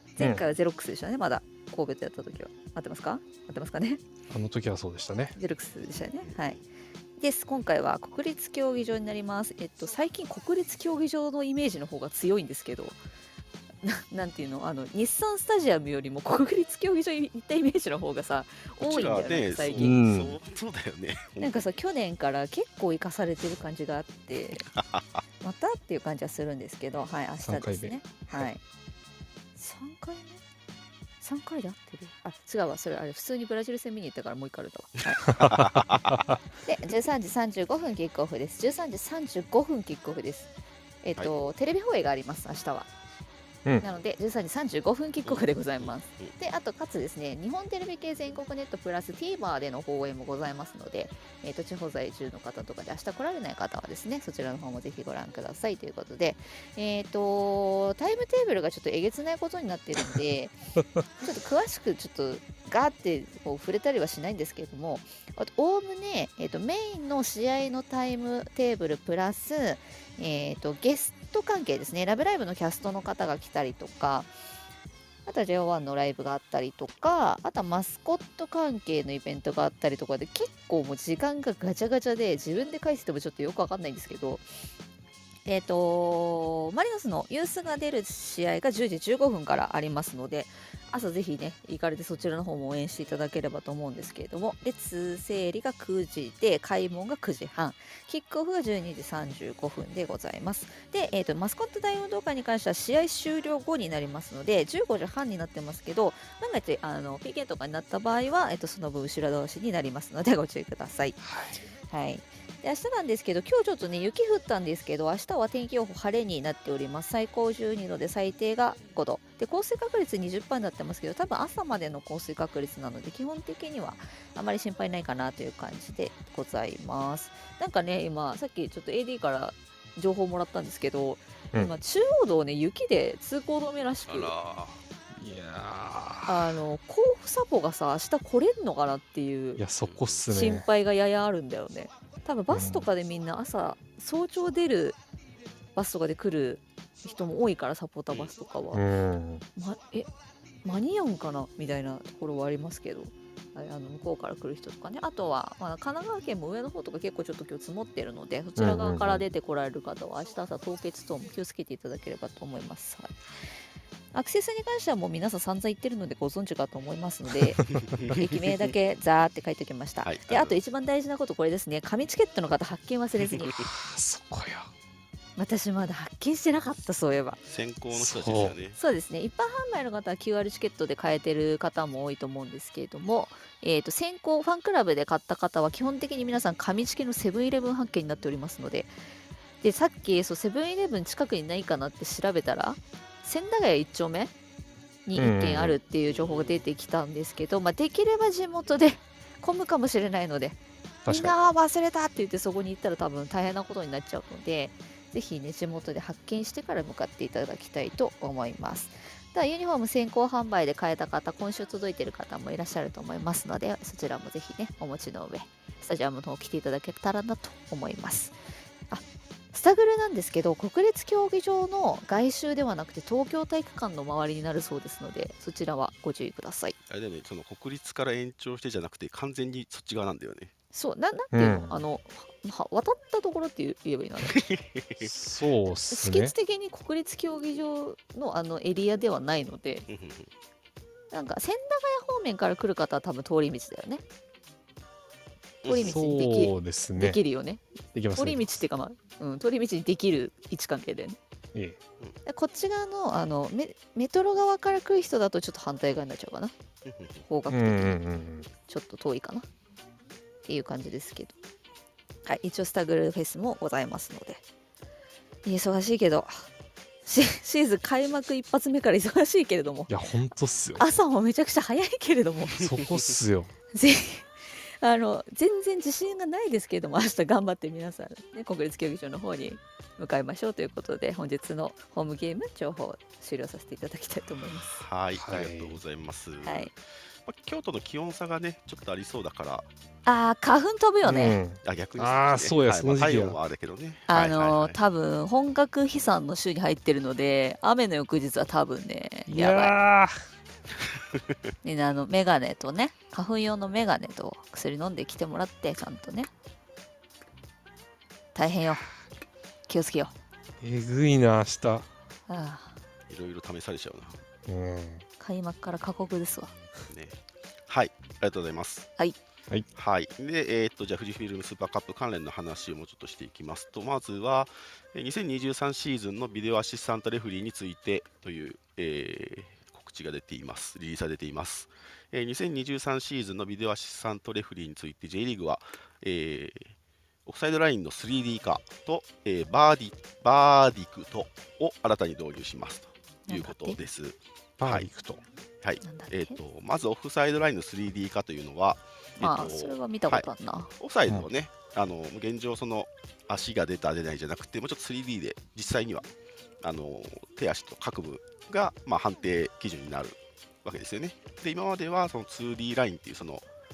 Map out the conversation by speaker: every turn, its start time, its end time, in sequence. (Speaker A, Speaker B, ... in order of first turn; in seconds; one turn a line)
Speaker A: 0.1-4.0
Speaker B: 0.2-0.4
Speaker B: 4.3-5.3
Speaker A: 5.3-6.6
Speaker C: 6.2-6.6
Speaker A: 7.2-13.0
Speaker A: 13.8-20.0
Speaker C: 18.8-21.7
Speaker B: 19.8-20.4
Speaker A: 21.4-24.7
Speaker C: 24.7-25.2
Speaker A: 25.4-28.6
Speaker B: 27.4-27.9
Speaker A: 29.6-30.4
Speaker A: 31.2-35.5
Speaker C: 35.3-36.3
Speaker B: 35.4-36.3
Speaker A: 36.6-40.5
Speaker A: 41.0-42.9
Speaker A: 43.8-60.6
Speaker C: 45.2-46.3
Speaker A: 61.2-74.3
Speaker A: 75.2-84.5
Speaker A: 85.5-111.2
Speaker B: 111.2-111.6
Speaker A: 111.9-134.3
Speaker C: 134.1-134.8
Speaker B: 135.1-136.5
Speaker A: 136.2-139.6
Speaker B: 139.6-140.7
Speaker C: 139.8-140.2
Speaker A: 140.3-145.0
Speaker B: 142.5-142.8
Speaker A: 145.7-148.8
Speaker B: 148.7-149.4
Speaker A: 149.6-150.1
Speaker A: 150.6-163.1
Speaker B: 158.6-159.2
Speaker A: 164.1-173.5
Speaker B: 167.6-167.8
Speaker C: 167.7-168.7
Speaker C: 170.0-170.6
Speaker C: 173.4-173.7
Speaker B: 173.6-174.7
Speaker A: 175.4-177.4
Speaker C: 177.4-178.8
Speaker B: 177.9-178.5
Speaker A: 178.8-188.9
Speaker A: 189.6-194.3
Speaker A: 195.1-218.4
Speaker B: 195.2-195.8
Speaker C: 196.1-196.7
Speaker B: 201.0-201.4
Speaker A: 218.9-226.7
Speaker C: 226.9-230.5
Speaker A: 230.7-234.4
Speaker B: 231.3-231.8
Speaker C: 234.3-235.1
Speaker B: 235.0-236.3
Speaker A: 235.9-239.9
Speaker C: 239.9-240.3
Speaker A: 241.1-244.0
Speaker C: 245.6-246.0
Speaker A: 245.6-247.6
Speaker B: 245.8-247.2
Speaker B: 247.9-248.5
Speaker A: 248.1-251.2
Speaker A: 252.2-256.5
Speaker C: 256.8-257.2
Speaker A: 257.2-258.0
Speaker B: 257.5-258.5
Speaker A: 258.7-259.5
Speaker A: 260.4-261.4
Speaker A: 262.2-264.4
Speaker A: 265.4-266.5
Speaker A: 267.0-269.9
Speaker B: 269.9-270.8
Speaker A: 270.8-272.7
Speaker B: 272.6-273.5
Speaker A: 273.7-284.8
Speaker C: 284.8-289.7
Speaker B: 285.1-285.8
Speaker A: 286.4-286.7
Speaker A: 290.0-291.4
Speaker B: 291.0-293.4
Speaker C: 291.6-294.8
Speaker A: 294.1-299.8
Speaker B: 299.3-300.1
Speaker A: 301.6-306.3
Speaker A: 308.3-308.9
Speaker A: 309.7-310.1
Speaker B: 310.6-311.9
Speaker A: 312.3-312.8
Speaker C: 313.1-314.2
Speaker B: 314.5-315.0
Speaker A: 315.2-316.5
Speaker C: 316.9-318.9
Speaker C: 319.8-336.7
Speaker C: 337.2-344.9
Speaker A: 343.3-343.8
Speaker B: 344.6-345.2
Speaker C: 345.6-356.1
Speaker A: 345.8-346.4
Speaker A: 349.2-350.7
Speaker C: 356.6-363.4